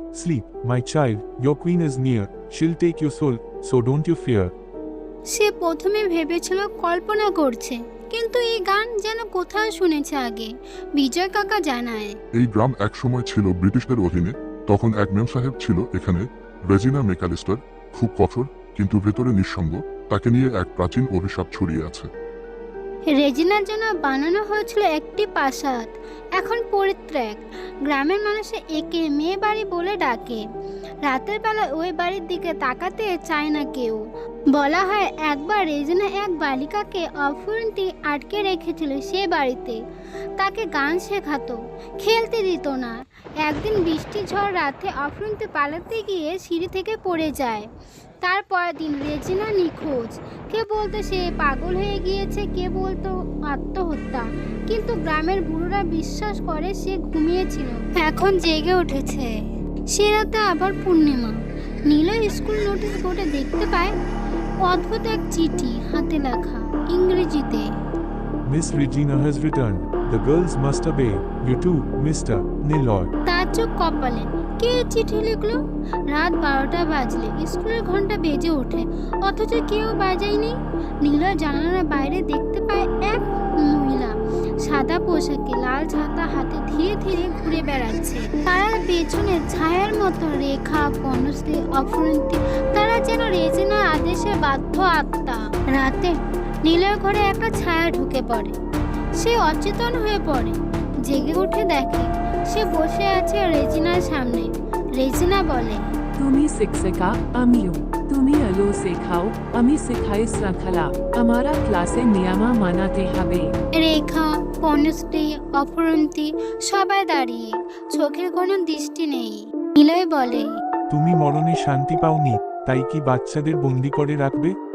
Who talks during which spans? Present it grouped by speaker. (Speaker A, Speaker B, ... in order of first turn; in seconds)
Speaker A: 0.1-4.5, 68.5-73.1, 120.9-124.5
Speaker B: 5.3-12.2, 23.1-30.4, 31.0-39.8, 40.4-47.7, 48.2-59.4, 59.9-63.9, 64.6-67.7, 73.3-75.6, 76.1-98.5, 99.2-105.8, 113.8-120.5
Speaker C: 12.3-22.1
Speaker D: 106.2-113.5